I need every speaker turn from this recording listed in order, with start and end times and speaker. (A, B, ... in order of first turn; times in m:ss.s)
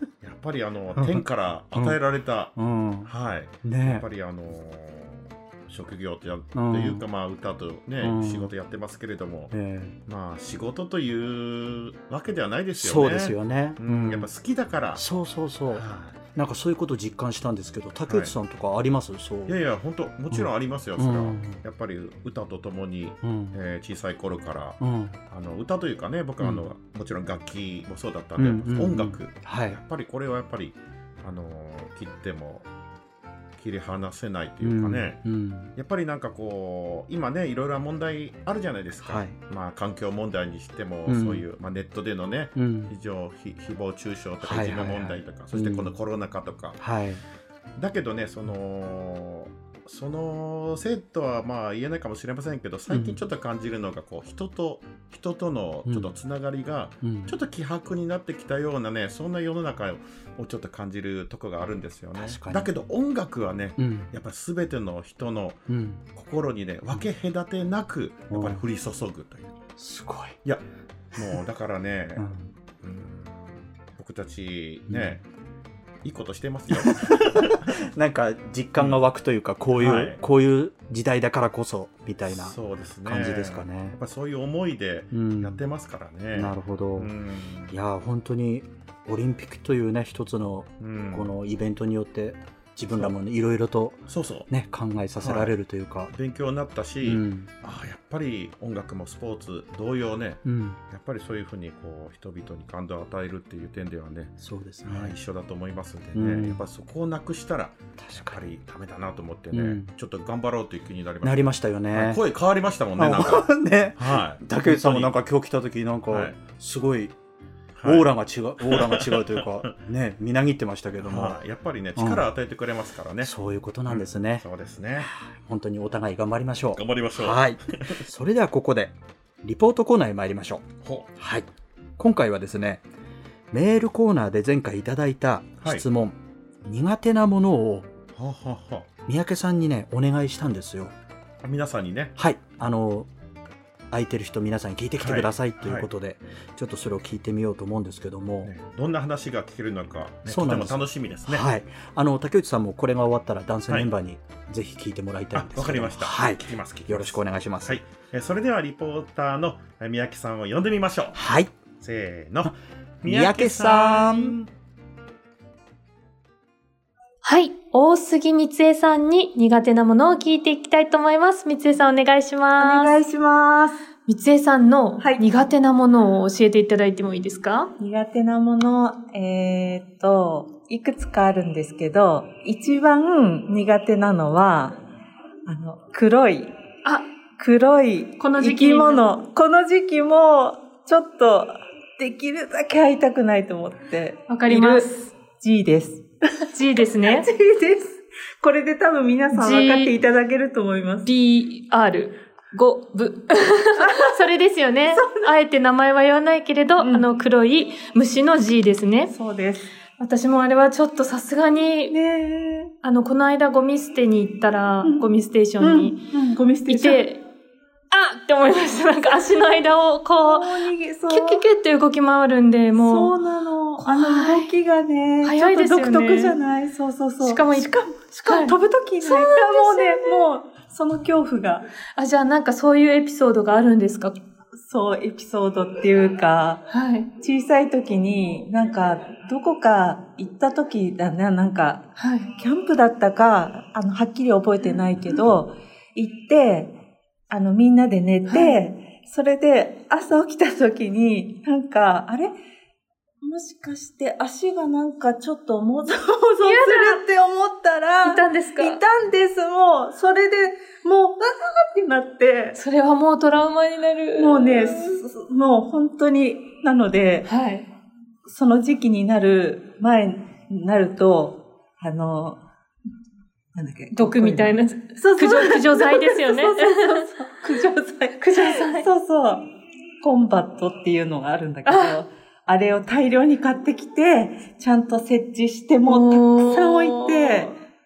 0:00.2-0:02.5 A
0:01.0-0:02.0 B
0:02.5-0:03.1 B
0:03.0-0:09.5 A
0:03.6-0:04.0 B
0:06.5-0:07.0 B
0:08.0-0:08.5 B
0:09.5-0:10.0 B
0:10.0-0:15.0 A
0:12.8-0:14.3 B
0:15.0-0:19.6 B
0:15.7-0:16.2 A
0:19.5-0:32.7 A
0:20.3-0:21.6 B
0:23.2-0:23.6 B
0:24.8-0:25.2 B
0:26.4-0:26.6 B
0:28.4-0:29.8 B
0:33.6-0:46.8 A
0:34.6-0:35.7 B
0:39.0-0:39.4 B
0:41.1-0:41.4 B
0:42.5-0:42.9 B
0:44.4-0:45.9 B
0:46.8-0:47.2 B
0:47.8-1:05.6 A
0:52.9-0:53.2 B
0:55.8-0:56.1 B
0:57.0-0:57.3 B
1:02.2-1:02.7 B
1:03.8-1:04.1 B
1:05.7-1:06.0 B
1:06.1-1:09.5 A
1:08.3-1:08.6 B
1:09.8-1:10.4 B
1:11.2-1:12.2 A
1:12.2-1:12.5 B
1:12.8-1:15.2 A
1:14.9-1:15.2 B
1:16.0-1:17.6 A
1:16.8-1:24.0 B
1:19.8-1:20.2 A
1:22.3-1:27.7 A
1:25.1-1:25.6 B
1:26.3-1:27.1 B
1:27.7-1:36.1 B
1:30.8-1:31.3 A
1:34.1-1:34.5 A
1:35.2-1:35.5 A
1:36.1-1:55.1 A
1:37.0-1:37.5 B
1:40.4-1:40.8 B
1:44.4-1:45.2 B
1:46.1-1:46.6 B
1:48.0-1:48.4 B
1:49.5-1:49.9 B
1:51.2-1:52.2 B
1:53.0-1:57.1 B
1:56.1-1:56.4 A
1:57.8-1:58.1 A
1:57.8-2:01.4 B
1:58.6-1:59.7 A
2:01.0-2:03.3 A
2:02.0-2:02.2 B
2:03.2-2:04.4 B
2:03.9-2:05.1 A
2:05.0-2:12.8 B
2:06.7-2:08.0 A
2:10.8-2:11.1 A
2:13.5-2:17.9 B
2:18.1-2:18.9 A
2:19.0-2:20.9 B
2:21.4-2:22.1 A
2:22.2-2:23.1 B
2:23.9-2:28.5 B
2:25.0-2:25.9 A
2:28.4-2:31.4 A
2:30.3-2:37.8 B
2:35.3-2:41.2 A
2:41.1-2:41.5 B
2:41.8-2:44.4 A
2:43.0-2:44.4 B
2:47.2-2:53.0 C
2:52.6-2:53.8 D
2:54.1-2:57.7 C
2:55.0-2:55.3 D
2:57.8-3:04.8 D
3:05.4-3:06.5 D
3:07.4-3:16.5 D
3:08.2-3:09.1 C
3:14.3-3:15.1 C
3:16.5-3:17.3 C
3:17.0-3:21.1 D
3:19.3-3:19.9 C
3:21.0-3:29.1 C
3:23.8-3:24.2 D
3:24.9-3:25.3 D
3:26.8-3:27.0 D
3:29.1-3:29.7 D
3:30.0-3:31.9 C
3:31.9-3:32.7 D
3:32.8-3:36.1 C
3:35.6-3:37.0 D
3:36.6-3:37.2 C
3:37.9-3:43.1 C
3:40.2-3:41.4 D
3:42.7-3:51.6 D
3:43.8-3:44.5 C
3:45.2-3:46.4 C
3:47.2-3:50.3 C
3:52.0-3:54.2 C
3:54.6-3:56.6 D
3:56.7-3:57.1 C
3:57.2-4:06.7 D
4:02.0-4:02.3 C
4:07.3-4:12.3 D
4:08.3-4:08.6 C
4:13.2-4:22.6 D
4:16.4-4:17.0 C
4:18.0-4:18.8 C
4:22.5-4:24.9 C
4:24.2-4:27.3 D
4:27.2-4:27.7 C
4:28.2-4:32.4 D
4:33.5-4:39.4 D
4:33.9-4:37.5 C
4:38.2-4:38.8 C
4:40.0-4:47.6 D
4:41.6-4:42.0 C
4:45.8-4:47.5 C